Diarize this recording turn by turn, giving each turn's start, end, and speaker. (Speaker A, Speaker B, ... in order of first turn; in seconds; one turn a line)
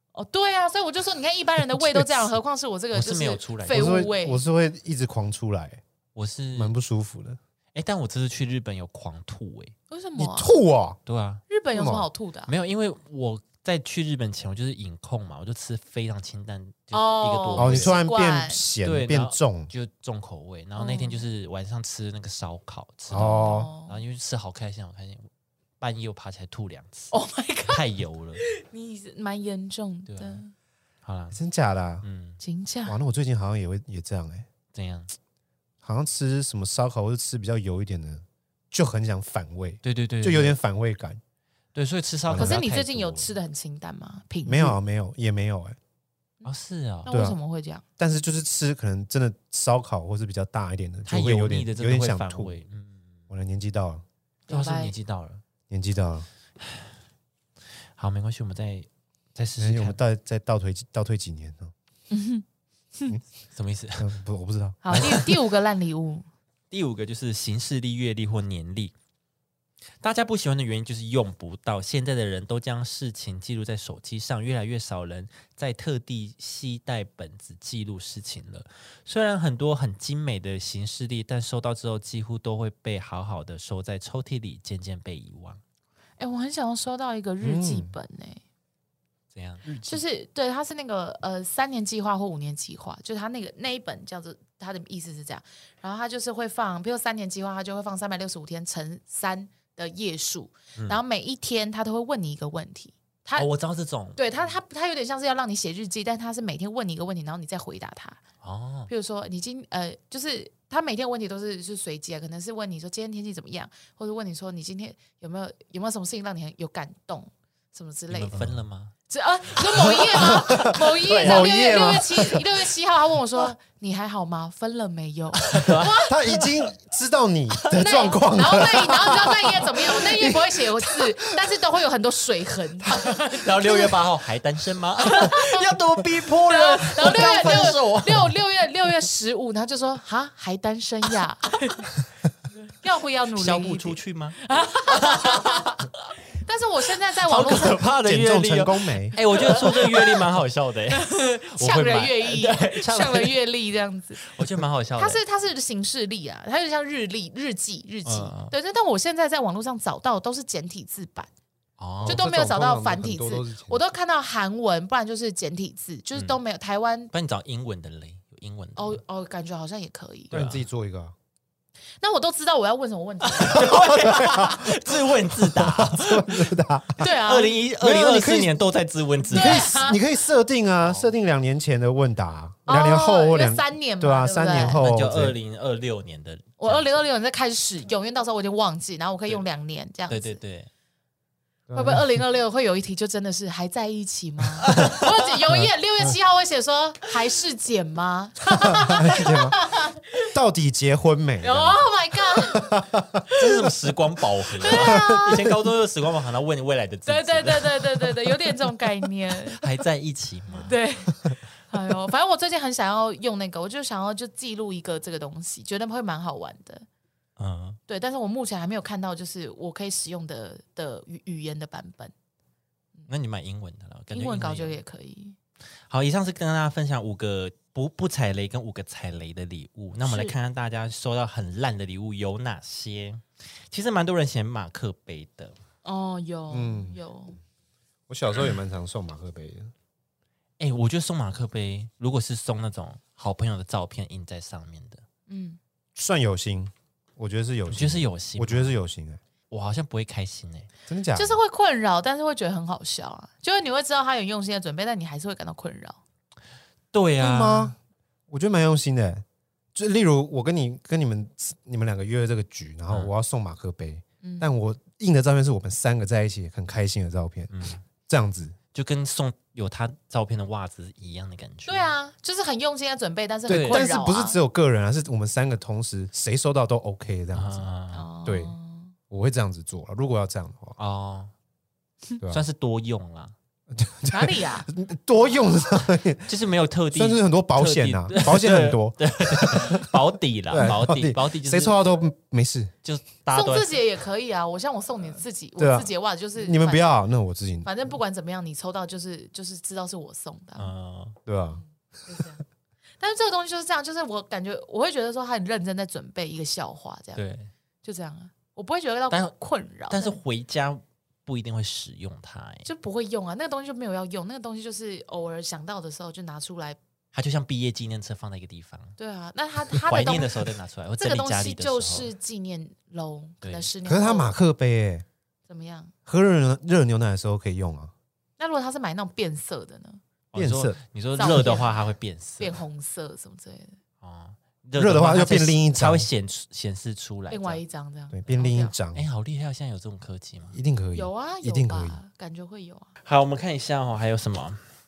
Speaker A: 0.1-4.4
Speaker B: 1.6-2.3
Speaker C: 2.9-4.0
Speaker B: 3.7-5.8
Speaker C: 6.1-6.7
Speaker B: 6.5-7.4
Speaker C: 7.7-9.7
Speaker A: 9.9-10.5
Speaker B: 10.2-11.0
Speaker C: 11.1-11.4
Speaker A: 11.5-12.5
Speaker B: 11.7-12.1
Speaker C: 12.5-18.0
Speaker A: 16.9-18.6
Speaker B: 17.6-19.7
Speaker C: 18.8-27.1
Speaker A: 20.8-21.2
Speaker B: 23.1-23.7
Speaker A: 23.1-24.0
Speaker A: 27.1-27.8
Speaker C: 27.7-28.4
Speaker A: 28.4-30.5
Speaker C: 30.1-30.4
Speaker C: 31.0-31.4
Speaker B: 31.3-32.0
Speaker C: 32.0-32.4
Speaker A: 32.4-33.0
Speaker B: 32.9-34.5
Speaker C: 34.7-35.1
Speaker B: 35.8-41.2
Speaker C: 39.8-40.6
Speaker C: 41.7-43.3
Speaker B: 42.3-42.6
Speaker A: 42.4-44.8
Speaker B: 44.4-45.8
Speaker C: 46.4-47.1
Speaker A: 47.0-47.8
Speaker B: 47.1-47.4
Speaker B: 48.0-52.6
Speaker C: 51.1-53.2
Speaker B: 53.3-54.0
Speaker A: 54.5-54.9
Speaker C: 54.5-55.4
Speaker B: 55.7-56.3
Speaker C: 56.6-56.9
Speaker C: 58.0-60.0
Speaker B: 59.6-61.7
Speaker A: 62.1-62.4
Speaker C: 63.5-64.1
Speaker B: 64.0-65.3
Speaker A: 64.8-66.2
Speaker C: 66.7-68.9
Speaker C: 70.0-85.6
Speaker A: 86.2-88.4
Speaker B: 87.4-87.9
Speaker C: 89.3-89.7
Speaker B: 89.7-90.0
Speaker A: 89.8-103.5
Speaker C: 103.3-104.5
Speaker A: 104.2-108.2
Speaker C: 108.4-108.9
Speaker A: 108.9-118.3
Speaker C: 118.1-118.9
Speaker B: 118.3-118.6
Speaker A: 119.1-126.5
Speaker C: 119.5-121.8
Speaker B: 120.1-122.6
Speaker C: 125.4-126.0
Speaker B: 126.0-131.2
Speaker A: 127.7-134.0
Speaker C: 128.6-129.9
Speaker C: 132.9-138.3
Speaker A: 135.0-135.7
Speaker A: 136.5-141.9
Speaker A: 142.8-145.7
Speaker C: 143.3-146.1
Speaker A: 146.4-147.8
Speaker C: 147.2-153.4
Speaker B: 148.0-149.2
Speaker A: 149.3-150.2
Speaker A: 150.9-154.3
Speaker C: 154.2-155.2
Speaker A: 155.0-161.3
Speaker C: 158.0-158.5
Speaker C: 161.8-162.2
Speaker B: 162.0-163.8
Speaker A: 162.0-167.1
Speaker C: 167.1-169.0
Speaker A: 168.8-170.3
Speaker C: 170.3-170.6
Speaker B: 170.3-171.1
Speaker A: 172.0-174.7
Speaker C: 173.2-179.8
Speaker B: 173.6-174.5
Speaker B: 175.6-177.1
Speaker A: 177.0-177.6
Speaker B: 177.8-178.5
Speaker A: 179.3-180.0
Speaker B: 179.3-185.3
Speaker C: 180.8-181.1
Speaker A: 182.7-184.8
Speaker C: 184.7-187.0
Speaker A: 186.6-190.4
Speaker C: 190.1-190.7
Speaker B: 191.7-192.2
Speaker A: 191.7-200.3
Speaker C: 194.6-195.0
Speaker B: 198.6-199.6
Speaker B: 200.2-203.5
Speaker A: 201.4-202.8
Speaker C: 203.3-208.7
Speaker A: 204.6-205.4
Speaker B: 204.7-205.5
Speaker A: 207.1-209.8
Speaker C: 209.5-210.8
Speaker A: 210.6-216.8
Speaker C: 217.4-217.8
Speaker A: 217.9-222.1
Speaker C: 223.1-224.8
Speaker A: 224.1-225.3
Speaker C: 225.9-235.6
Speaker A: 230.0-230.3
Speaker A: 235.8-237.4
Speaker B: 236.5-237.0
Speaker B: 238.1-239.7
Speaker C: 240.6-245.0
Speaker A: 245.3-245.6
Speaker B: 245.9-249.2
Speaker C: 247.7-248.7
Speaker C: 249.5-250.7
Speaker B: 250.9-251.4
Speaker A: 251.1-256.0
Speaker C: 256.9-257.7
Speaker B: 257.2-257.8
Speaker B: 258.3-259.2
Speaker B: 259.7-267.5
Speaker A: 264.2-264.5
Speaker C: 267.5-267.8
Speaker B: 268.0-268.6
Speaker C: 268.7-271.9
Speaker A: 271.7-274.4
Speaker C: 273.5-273.9
Speaker B: 273.6-277.6
Speaker C: 277.3-278.1
Speaker A: 277.9-278.9
Speaker B: 278.2-278.5
Speaker B: 279.1-280.8
Speaker C: 280.8-281.3
Speaker C: 282.3-283.3
Speaker B: 283.7-286.3
Speaker A: 284.1-284.7
Speaker C: 286.3-291.7
Speaker B: 286.9-289.9
Speaker B: 290.5-292.7
Speaker C: 292.8-293.7
Speaker A: 293.3-296.9
Speaker B: 295.6-297.7
Speaker A: 297.6-300.7
Speaker C: 300.6-301.2
Speaker B: 301.2-301.6
Speaker A: 302.1-302.4
Speaker A: 303.0-307.2
Speaker C: 307.1-307.5
Speaker A: 307.8-310.2
Speaker C: 309.9-312.6
Speaker A: 312.6-316.8
Speaker C: 317.1-318.9
Speaker A: 319.0-324.3
Speaker C: 319.8-322.1
Speaker C: 323.4-323.7
Speaker B: 323.8-325.0
Speaker A: 325.5-325.9
Speaker B: 326.1-327.9
Speaker A: 328.4-330.0
Speaker C: 330.3-332.6
Speaker B: 330.3-330.8
Speaker A: 331.1-333.8
Speaker C: 334.0-337.6
Speaker B: 334.8-336.1
Speaker A: 337.3-338.7
Speaker B: 338.1-339.0
Speaker C: 338.9-340.6
Speaker B: 340.5-342.0
Speaker A: 340.9-342.9
Speaker C: 343.0-344.6